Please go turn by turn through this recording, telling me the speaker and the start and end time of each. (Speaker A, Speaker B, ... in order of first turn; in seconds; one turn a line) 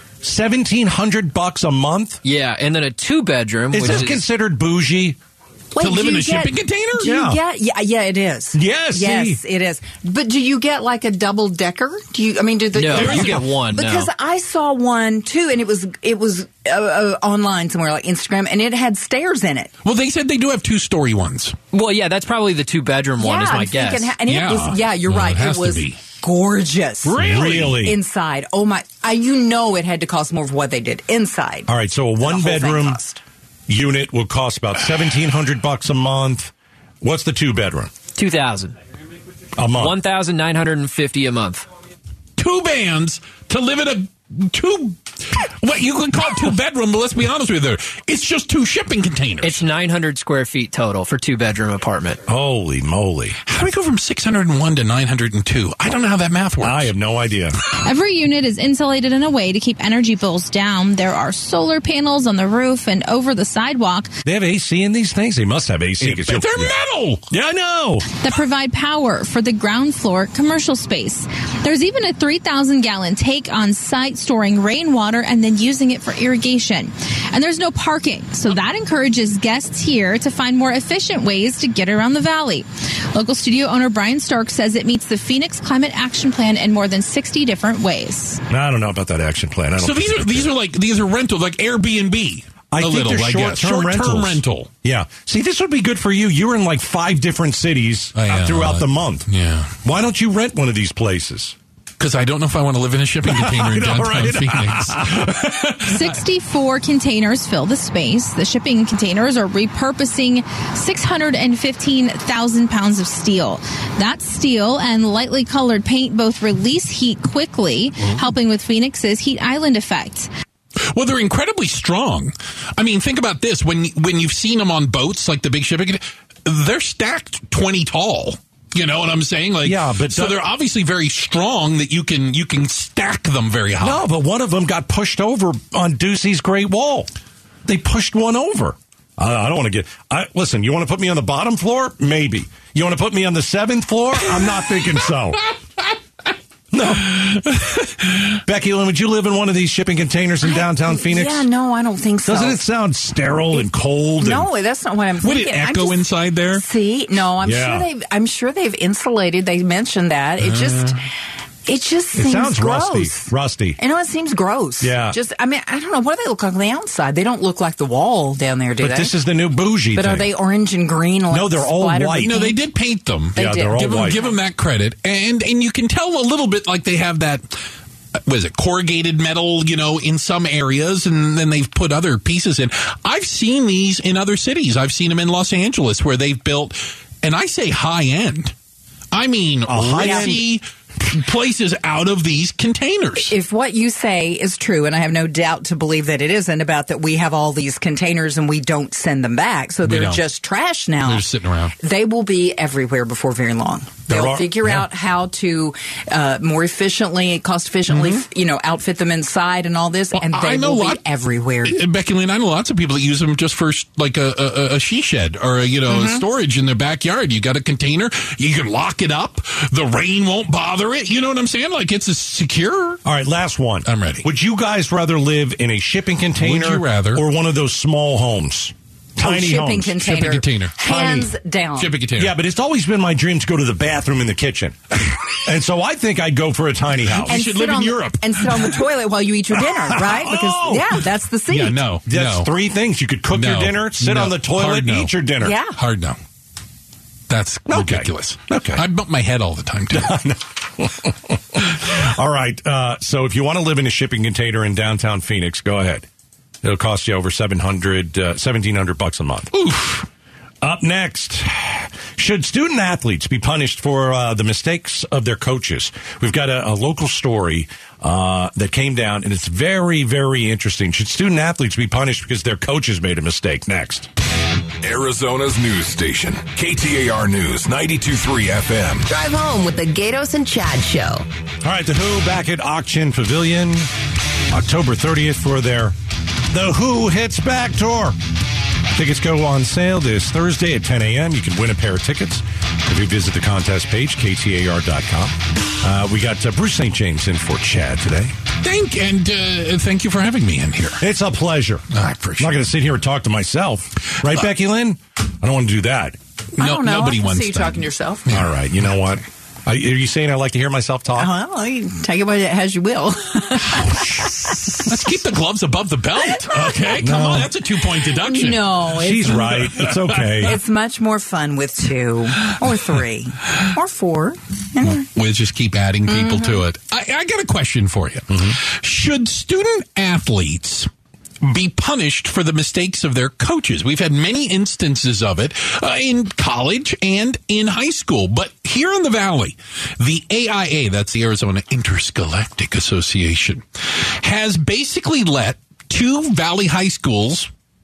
Speaker A: 0.2-2.2
Speaker B: 2.2-4.2
Speaker A: 3.7-5.2
Speaker C: 5.7-19.7
Speaker D: 5.8-7.1
Speaker A: 7.0-7.4
Speaker A: 8.5-9.4
Speaker B: 12.7-14.1
Speaker D: 12.9-13.4
Speaker D: 19.8-21.6
Speaker B: 21.7-24.2
Speaker C: 23.2-31.7
Speaker D: 24.2-26.0
Speaker D: 27.0-27.9
Speaker A: 27.2-28.0
Speaker A: 31.7-33.0
Speaker C: 32.2-33.2
Speaker A: 33.7-37.9
Speaker B: 38.1-38.8
Speaker A: 39.6-40.0
Speaker B: 39.7-41.6
Speaker D: 42.4-49.6
Speaker B: 49.4-52.2
Speaker A: 52.3-53.4
Speaker D: 53.5-56.9
Speaker A: 56.6-57.6
Speaker E: 57.8-64.1
Speaker A: 64.2-66.7
Speaker D: 66.0-67.2
Speaker A: 67.3-68.0
Speaker E: 68.2-88.4
Speaker A: 88.5-90.5
Speaker D: 89.8-94.7
Speaker A: 92.7-99.3
Speaker D: 98.2-99.7
Speaker A: 99.8-101.5
Speaker D: 102.0-106.2
Speaker A: 103.2-105.6
Speaker E: 105.8-120.3
Speaker D: 120.8-134.0
Speaker A: 129.6-130.4
Speaker A: 133.8-137.1
Speaker A: 137.7-145.4
Speaker A: 146.7-151.5
Speaker C: 150.4-152.6
Speaker A: 152.2-154.5
Speaker C: 154.2-161.1
Speaker D: 155.2-156.6
Speaker A: 157.4-157.9
Speaker D: 160.4-160.9
Speaker C: 161.7-169.1
Speaker A: 162.1-163.8
Speaker A: 164.8-165.2
Speaker A: 168.8-170.3
Speaker C: 169.9-172.6
Speaker A: 171.3-172.4
Speaker D: 172.2-177.6
Speaker A: 173.3-174.2
Speaker C: 173.3-174.4
Speaker D: 178.2-188.5
Speaker D: 189.1-193.3
Speaker A: 189.7-190.4
Speaker C: 190.0-190.3
Speaker C: 193.3-201.2
Speaker D: 199.8-200.2
Speaker D: 201.0-201.7
Speaker C: 201.8-211.8
Speaker A: 204.1-204.8
Speaker D: 207.9-208.2
Speaker D: 210.1-211.0
Speaker D: 211.6-223.0
Speaker C: 215.9-216.2
Speaker A: 223.0-229.9
Speaker D: 223.8-224.3
Speaker D: 226.3-227.2
Speaker C: 229.2-231.9
Speaker D: 230.0-231.0
Speaker A: 230.8-231.3
Speaker D: 231.8-232.3
Speaker A: 232.2-237.3
Speaker D: 237.2-238.8
Speaker C: 237.3-241.8
Speaker A: 239.9-241.0
Speaker D: 241.5-242.5
Speaker A: 242.1-245.6
Speaker D: 243.3-245.1
Speaker C: 245.4-245.8
Speaker D: 245.7-246.2
Speaker D: 247.3-250.2
Speaker A: 247.7-248.8
Speaker A: 249.9-256.1
Speaker A: 256.6-259.6
Speaker D: 259.5-260.1
Speaker A: 260.6-274.1
Speaker F: 274.8-279.1
Speaker G: 279.1-281.2
Speaker A: 281.6-283.9
Speaker A: 284.5-285.9
Speaker A: 286.5-288.2
Speaker A: 288.9-298.3
Speaker D: 298.6-301.0
Speaker A: 301.0-301.9
Speaker D: 301.9-302.6
Speaker A: 302.4-306.2
Speaker D: 306.6-308.5
Speaker C: 306.6-308.3
Speaker A: 308.3-311.3
Speaker C: 311.1-315.1
Speaker D: 313.6-318.8
Speaker A: 316.5-317.5
Speaker C: 318.1-325.0
Speaker A: 318.9-320.6
Speaker D: 319.9-320.5
Speaker D: 324.8-330.9
Speaker C: 326.1-326.6
Speaker A: 328.3-328.6
Speaker D: 331.4-347.5